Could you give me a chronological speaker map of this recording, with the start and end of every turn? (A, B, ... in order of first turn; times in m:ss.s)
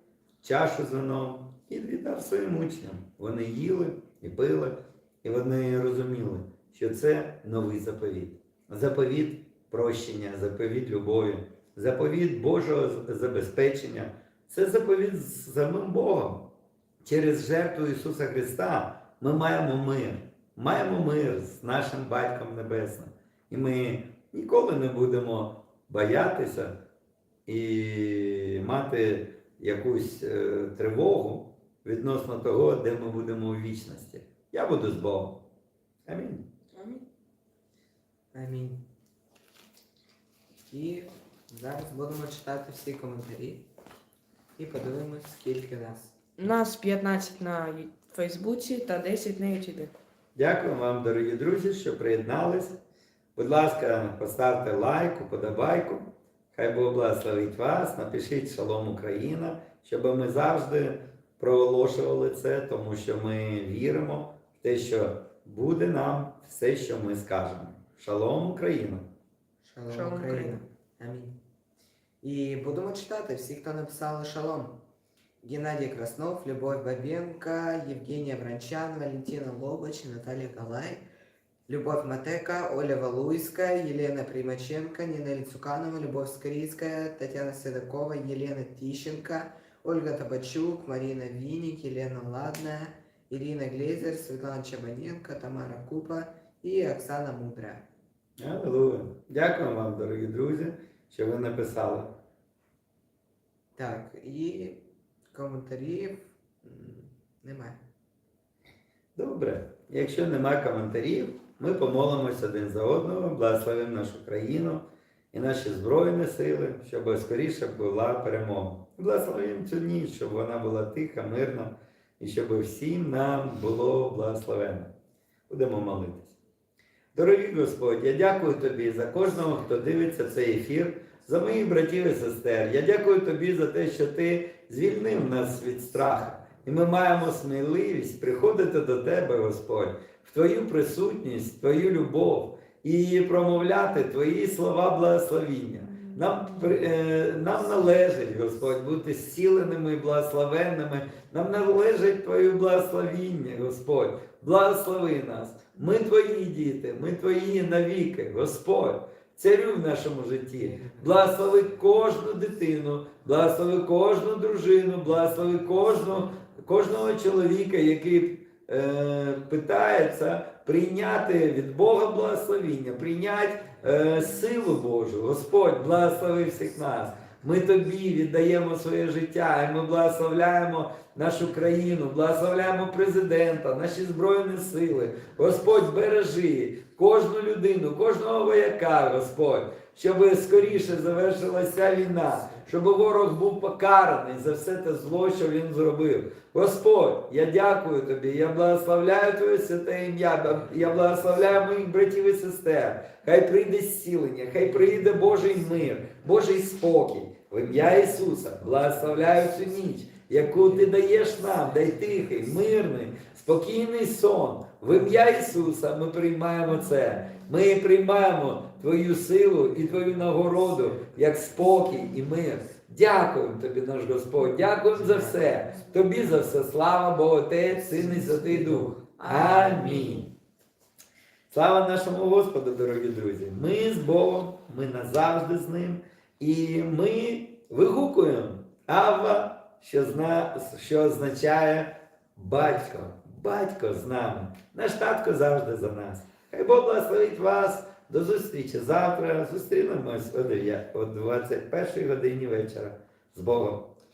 0:00.4-0:16.5 A
0:17.0-0:26.8 A
0:27.5-0:35.4 A
0:36.1-0:36.5 A
0:36.7-0:37.0 B
0:38.3-0:38.8 C
0:40.7-0:43.6 C
0:44.6-0:46.2 C
0:46.4-0:49.9 B
0:50.4-0:52.8 A
0:53.4-1:09.1 A
1:09.6-1:11.4 C
1:09.9-1:10.6 B
1:12.2-1:14.8 C
1:15.4-1:21.0 C
1:21.7-1:37.9 C
1:38.4-1:42.2 A
1:43.8-1:47.8 C
1:49.2-2:04.9 A
2:05.5-2:06.4 A
2:07.1-3:50.3 A
2:40.6-2:41.6 C
3:10.6-3:12.7 C
3:20.5-3:21.2 C
3:24.6-3:26.1 C
3:30.5-3:31.0 C
3:44.9-3:45.7 C
3:47.7-3:49.1 C
3:49.2-3:50.3 B
3:51.5-4:14.0 A